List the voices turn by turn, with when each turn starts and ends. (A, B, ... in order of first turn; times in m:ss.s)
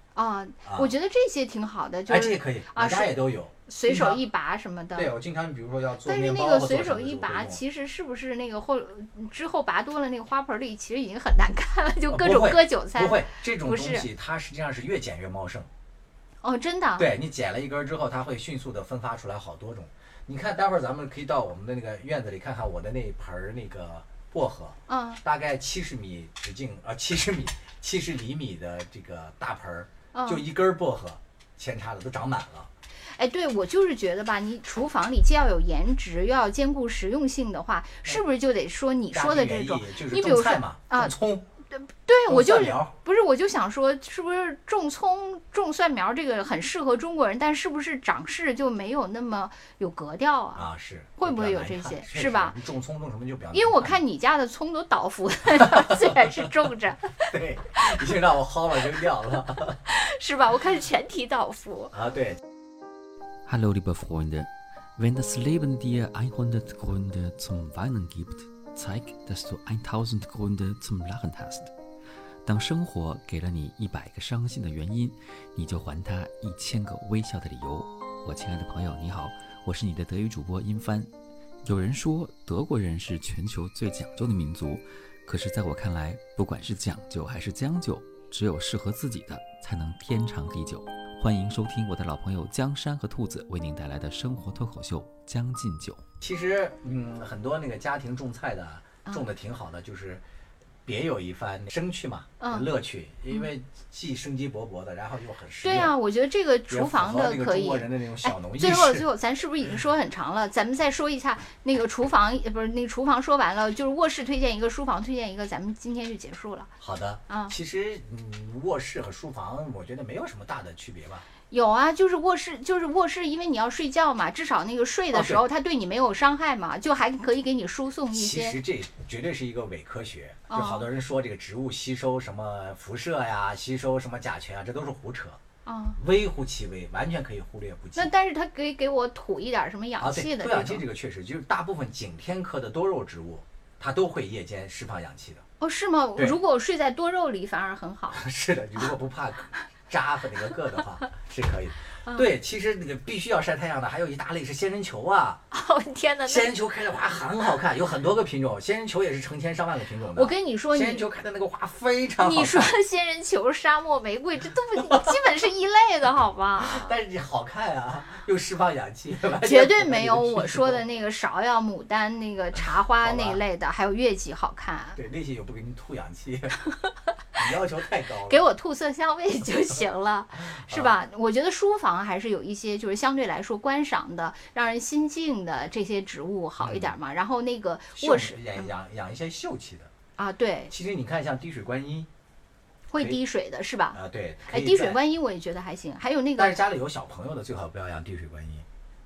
0:00.1-0:05.1 A
0:00.6-0:00.9 B
0:02.1-0:04.2 B
0:04.9-0:07.6 B
0:06.0-0:14.0 A
0:12.1-0:15.7 B
0:16.4-0:17.1 A
0:17.0-0:32.7 B
0:24.9-0:25.2 A
0:30.1-0:30.4 A
0:33.1-0:41.1 A
0:39.1-0:41.5 B
0:41.7-0:52.5 A
0:42.3-0:42.9 B
0:50.6-0:54.0 B
0:53.5-0:57.3 A
0:55.5-0:56.7 B
0:57.3-0:59.8 B
0:59.8-1:01.9 A
1:01.9-1:02.4 B
1:03.4-1:11.7 C
1:12.4-1:21.1 C
1:21.6-1:36.0 C
1:36.2-1:40.2 B
1:40.8-1:46.0 B
1:42.4-1:42.7 A
1:45.6-1:56.7 A
1:46.7-1:49.1 B
1:56.8-2:01.3 B
1:57.3-1:57.5 A
2:01.5-2:08.6 A
2:05.1-2:05.4 B
2:08.1-2:15.4 B
2:10.5-2:10.8 A
2:15.6-2:16.0 A
2:16.0-2:18.1 B
2:17.9-2:20.8 A
2:20.0-2:25.4 B
2:25.6-2:28.2 A
2:28.1-2:35.4 B
2:35.5-2:36.5 A
2:36.2-2:42.7 B
2:40.1-2:41.0 A
2:42.2-2:47.0 A
2:44.8-2:45.2 B
2:46.6-2:50.8 B
2:49.4-2:55.0 A
2:53.0-2:53.4 B
2:55.0-2:56.6 B
2:57.4-2:58.4 B
2:58.3-3:08.7 A
3:00.4-3:01.0 B
3:06.6-3:06.9 B
3:07.9-3:09.9 B
3:10.2-3:10.7 A
3:10.7-3:12.1 B
3:12.9-3:16.6 A
3:13.9-3:15.0 B
3:16.4-3:18.7 B